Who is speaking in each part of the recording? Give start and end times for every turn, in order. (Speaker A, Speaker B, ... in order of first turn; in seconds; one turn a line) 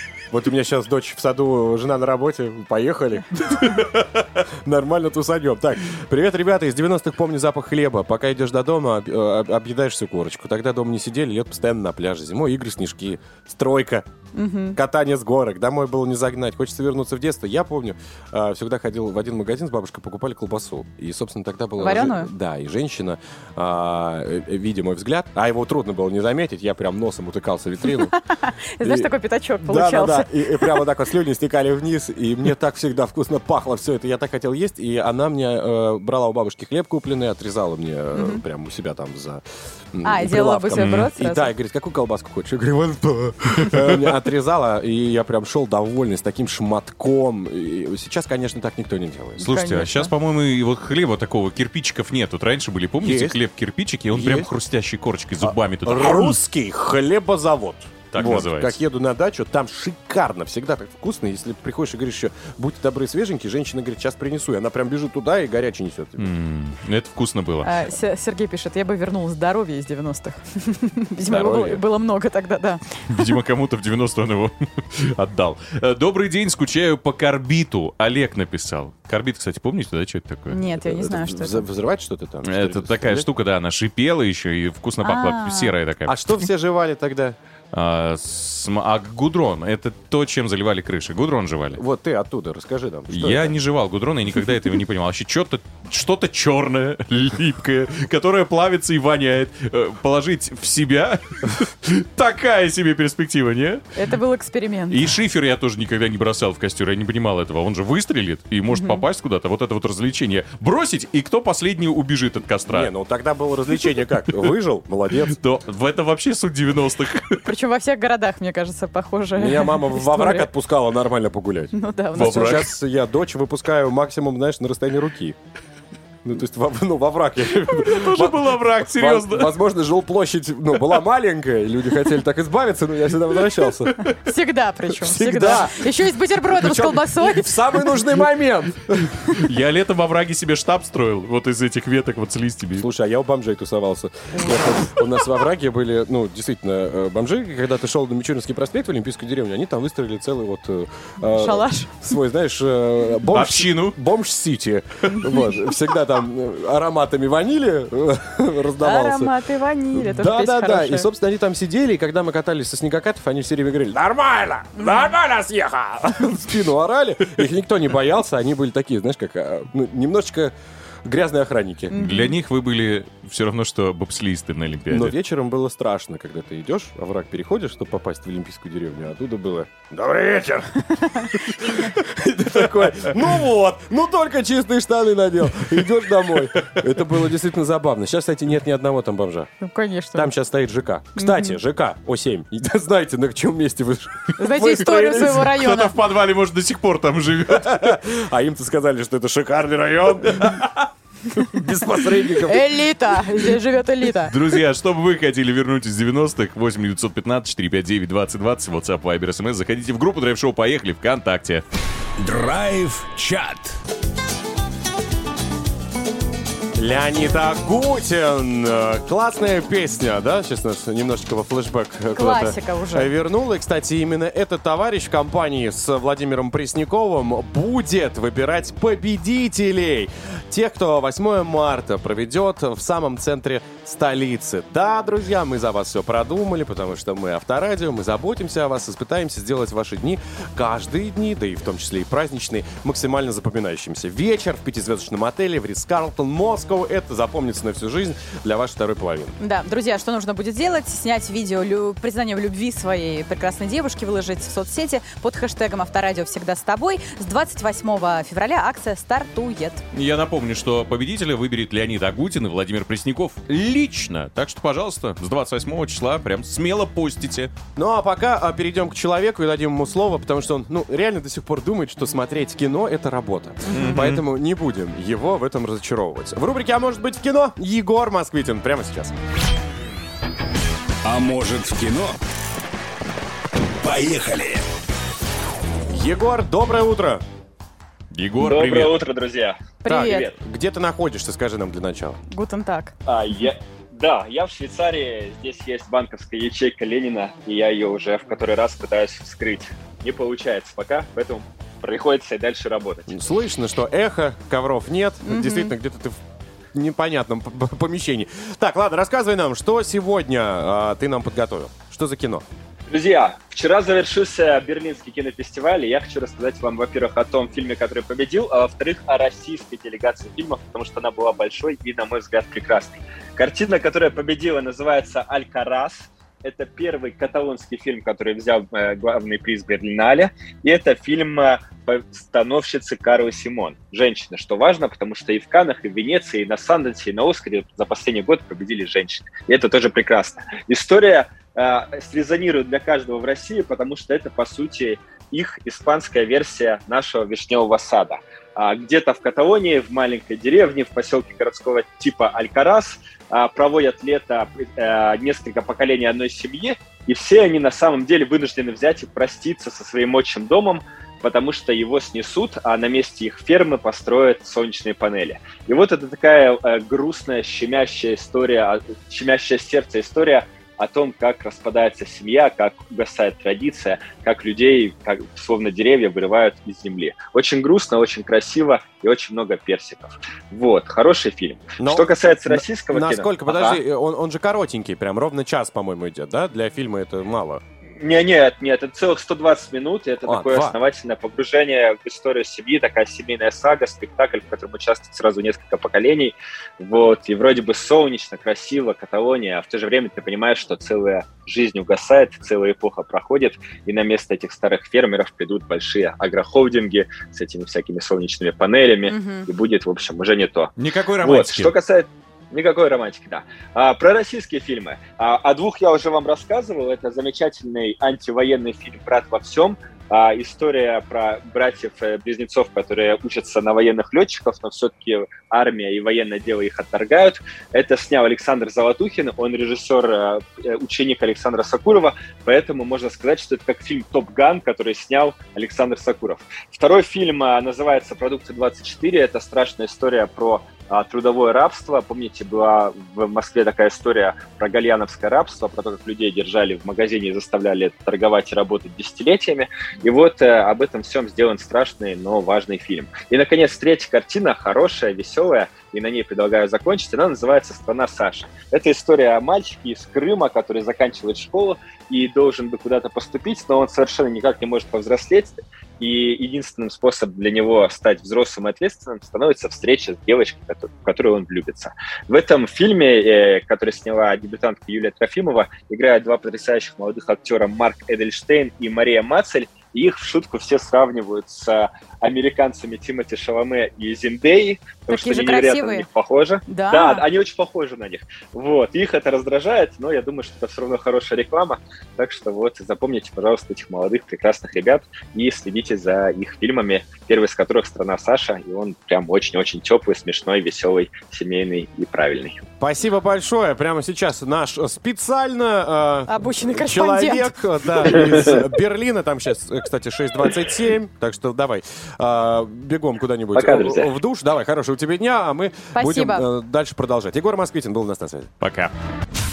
Speaker A: 0.3-14.1
Speaker B: 14.3-14.8
Speaker A: 14.7-28.1
Speaker B: 21.8-22.3
Speaker B: 28.4-30.8
Speaker A: 28.8-49.5
Speaker B: 38.1-38.4
Speaker B: 40.0-41.5
Speaker C: 40.8-41.1
Speaker B: 49.4-50.1
Speaker C: 49.4-56.4
Speaker A: 53.0-53.4
Speaker A: 54.1-54.5
Speaker A: 55.4-66.3
Speaker C: 58.1-58.8
Speaker C: 66.2-67.7
Speaker B: 67.6-73.3
Speaker A: 71.2-71.8
Speaker C: 73.1-80.6
Speaker B: 80.5-81.7
Speaker A: 80.8-83.3
Speaker C: 82.5-86.4
Speaker B: 85.0-85.8
Speaker A: 86.1-87.4
Speaker C: 87.7-91.8
Speaker A: 91.7-93.5
Speaker C: 93.1-103.9
Speaker B: 104.0-105.0
Speaker C: 104.9-112.9
Speaker B: 108.7-109.0
Speaker A: 112.7-115.4
Speaker C: 115.3-117.5
Speaker B: 117.4-120.5
Speaker A: 119.3-125.4
Speaker B: 121.7-122.6
Speaker C: 122.2-122.7
Speaker A: 126.2-134.0
Speaker C: 127.7-129.6
Speaker B: 134.0-138.0
Speaker A: 135.0-139.2
Speaker C: 139.2-142.9
Speaker A: 142.8-159.3
Speaker B: 144.4-144.7
Speaker B: 151.2-152.0
Speaker C: 153.3-154.0
Speaker B: 155.1-155.5
Speaker B: 158.8-161.1
Speaker A: 159.9-170.5
Speaker B: 164.8-165.1
Speaker A: 171.1-172.1
Speaker B: 171.9-172.3
Speaker C: 171.9-175.1
Speaker A: 174.9-189.5
Speaker B: 189.6-190.3
Speaker A: 190.2-195.5
Speaker B: 191.2-191.6
Speaker B: 194.4-195.9
Speaker C: 195.0-197.9
Speaker A: 197.5-200.7
Speaker C: 200.4-200.8
Speaker A: 201.4-202.7
Speaker B: 202.5-204.3
Speaker C: 204.3-211.6
Speaker D: 212.2-213.8
Speaker A: 216.8-249.4
Speaker B: 222.1-223.1
Speaker B: 249.4-259.8
Speaker C: 259.9-267.5
Speaker A: 267.8-279.2
Speaker B: 273.7-274.0
Speaker C: 273.7-274.2
Speaker D: 281.1-282.2
Speaker D: 283.8-284.6
Speaker A: 285.9-287.2
Speaker C: 288.1-289.0
Speaker E: 288.4-290.3
Speaker B: 289.8-290.3
Speaker A: 289.9-292.2
Speaker B: 292.3-292.9
Speaker E: 293.1-303.2
Speaker A: 303.1-306.2
Speaker B: 305.2-305.7
Speaker A: 306.7-312.4
Speaker E: 312.9-383.8
Speaker A: 381.8-387.6
Speaker E: 388.0-502.6
Speaker A: 390.2-390.8
Speaker B: 409.1-409.5
Speaker C: 410.8-411.8
Speaker B: 485.1-486.1
Speaker B: 486.7-487.3
Speaker A: 502.8-518.5
Speaker B: 506.3-508.2
Speaker E: 513.5-514.1
Speaker B: 515.9-516.5
Speaker C: 518.6-518.9